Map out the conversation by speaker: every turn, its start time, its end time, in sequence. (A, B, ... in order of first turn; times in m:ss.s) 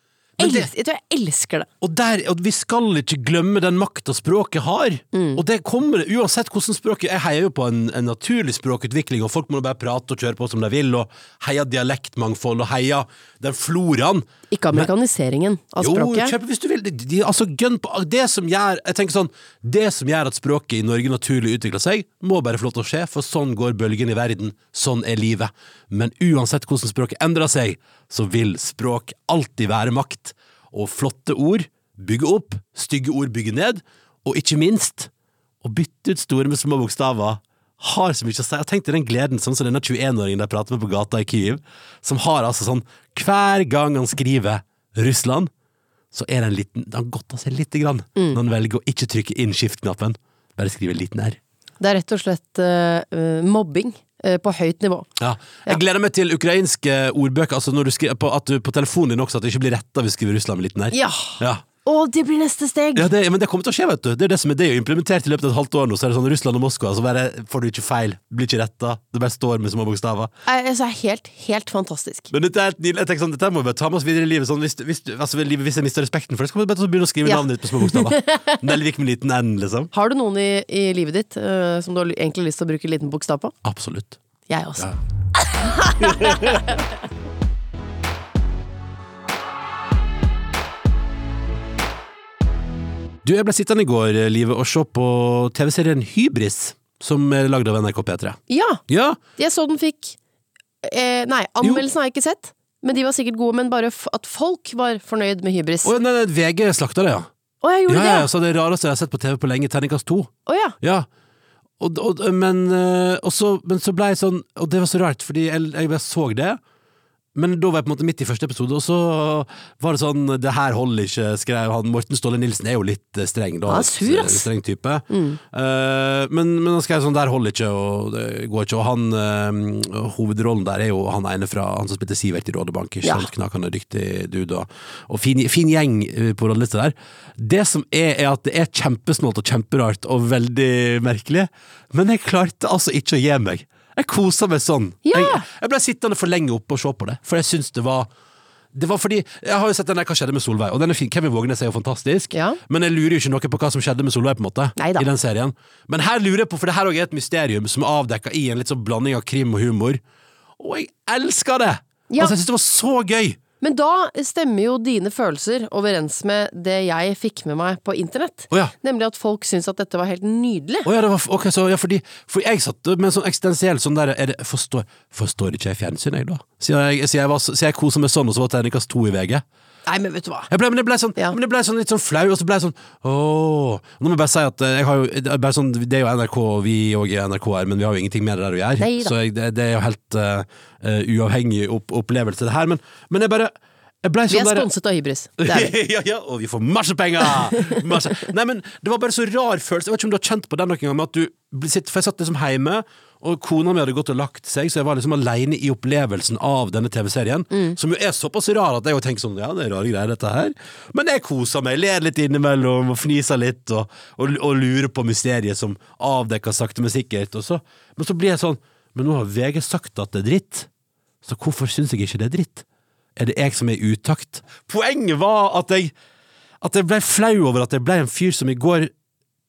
0:00.4-0:00.7 A
0:00.4-0:01.7 B
0:01.8-0:14.9 A
0:05.1-0:05.4 B
0:14.5-0:16.3 B
0:15.8-0:35.1 A
0:35.6-0:45.5 A
0:46.1-0:51.4 A
0:51.8-0:55.1 B
0:55.2-1:01.6 A
1:00.9-1:03.1 B
1:02.9-1:10.3 A
1:10.4-1:12.3 B
1:12.3-1:19.9 A
1:17.2-1:18.6 B
1:19.9-1:23.6 B
1:23.6-1:24.2 A
1:24.5-1:26.8 B
1:26.0-1:26.6 A
1:33.2-1:39.2 A
1:38.5-1:38.8 B
1:39.4-1:40.2 B
1:40.8-1:45.9 B
1:45.8-1:47.3 A
1:47.6-1:48.3 B
1:47.9-1:51.1 A
1:50.4-1:50.8 B
1:51.8-1:56.6 A
1:57.3-2:28.1 A
2:03.7-2:04.5 B
2:05.1-2:05.4 B
2:13.0-2:13.3 B
2:25.0-2:25.5 B
2:28.7-2:40.0 A
2:32.3-2:32.6 B
2:34.8-2:35.1 B
2:40.6-2:43.4 A
2:42.1-2:42.3 B
2:43.6-2:50.9 B
2:50.8-2:59.4 A
2:59.8-3:00.5 B
3:00.5-3:14.7 A
3:08.8-3:09.1 B
3:14.3-3:15.7 B
3:15.4-3:40.7 A
3:27.5-3:27.8 B
3:41.2-3:42.6 A
3:43.2-3:45.9 A
3:46.6-3:48.9 A